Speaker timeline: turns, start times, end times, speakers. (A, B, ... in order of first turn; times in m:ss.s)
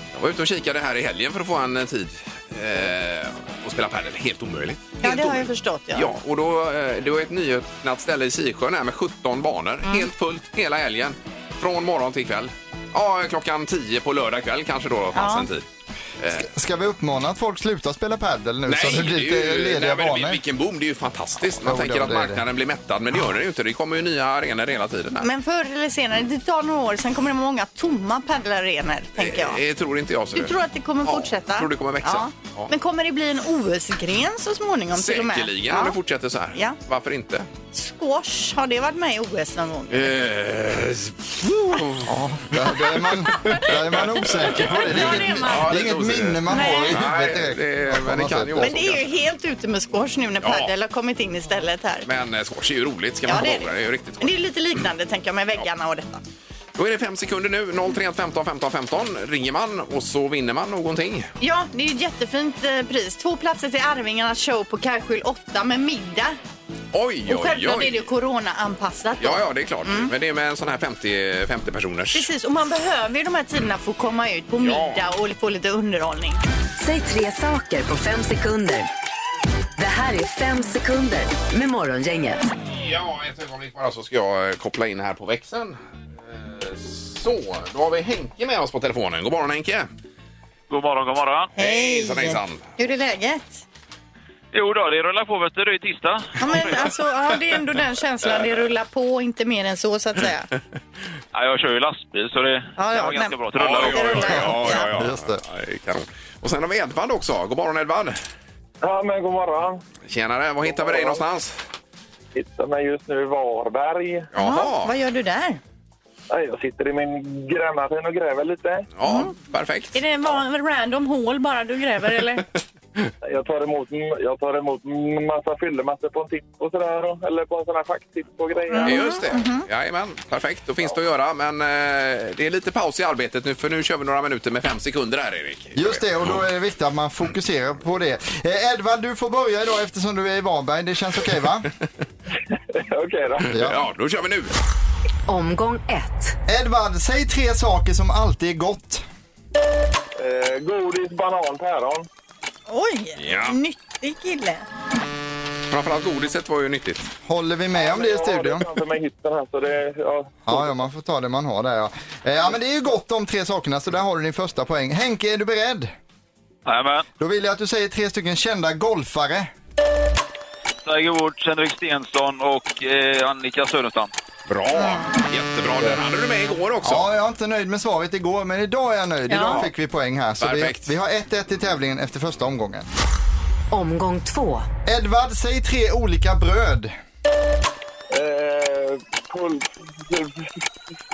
0:00.1-0:15.6 A
0:05.0-0:06.1 B
0:15.2-0:15.5 B
0:16.2-0:16.5 A
0:16.3-0:20.4 C
0:18.7-0:25.3 A
0:21.6-0:22.4 C
0:25.2-0:29.6 B
0:29.2-0:32.7 A
0:30.4-0:36.0 B
0:34.9-0:37.5 A
0:37.7-0:40.1 B
0:39.9-0:42.1 A
0:42.1-0:48.8 C
0:42.6-0:43.7 A
0:44.2-0:45.8 B
0:44.3-0:49.0 A
0:46.5-0:47.0 B
0:48.6-0:52.0 B
0:50.4-0:50.7 A
0:52.0-0:54.4 A
0:53.3-0:53.7 B
0:54.2-0:56.2 B
0:56.8-1:01.3 A
1:01.4-1:06.4 B
1:06.9-1:08.1 A
1:07.3-1:10.1 B
1:09.2-1:12.3 A
1:12.1-1:16.4 B
1:14.6-1:15.0 A
1:16.8-1:18.9 D
1:19.8-1:22.4 D
1:22.7-1:29.9 A
1:30.7-1:31.5 E
1:31.6-1:33.6 B
1:31.6-1:32.7 A
1:34.5-1:36.9 E
1:36.4-1:40.5 B
1:41.3-1:44.4 E
1:42.8-1:44.9 B
1:43.6-1:48.2 A
1:44.4-1:45.4 C
1:48.8-1:49.8 F
1:50.0-1:51.6 A
1:50.6-1:51.2 F
1:52.4-1:54.3 F
1:54.3-1:55.0 A
1:54.4-1:55.6 B
1:56.3-1:58.9 F
1:59.0-2:00.0 A
1:59.0-1:59.3 B
1:59.9-2:02.5 B
2:03.2-2:09.1 F
2:08.7-2:09.7 B
2:08.8-2:16.4 A
2:15.8-2:21.7 C
2:22.8-2:23.6 F
2:23.5-2:23.8 C
2:23.6-2:24.5 A
2:25.3-2:26.4 D
2:26.5-2:29.0 C
2:30.2-2:32.1 F
2:32.7-2:34.6 B
2:33.2-2:33.6 A
2:35.7-2:37.1 A
2:37.3-2:38.7 C
2:37.8-2:40.9 F
2:40.5-2:45.9 C
2:46.6-2:47.1 E
2:47.2-2:49.5 C
2:50.8-2:54.1 E
2:54.5-2:57.1 A
2:54.8-2:55.1 B
2:56.8-3:02.9 C
2:59.3-2:59.6 B
2:59.4-2:59.7 A
3:00.4-3:00.9 A
3:03.7-3:04.7 D
3:04.9-3:06.9 C
3:08.1-3:10.3 F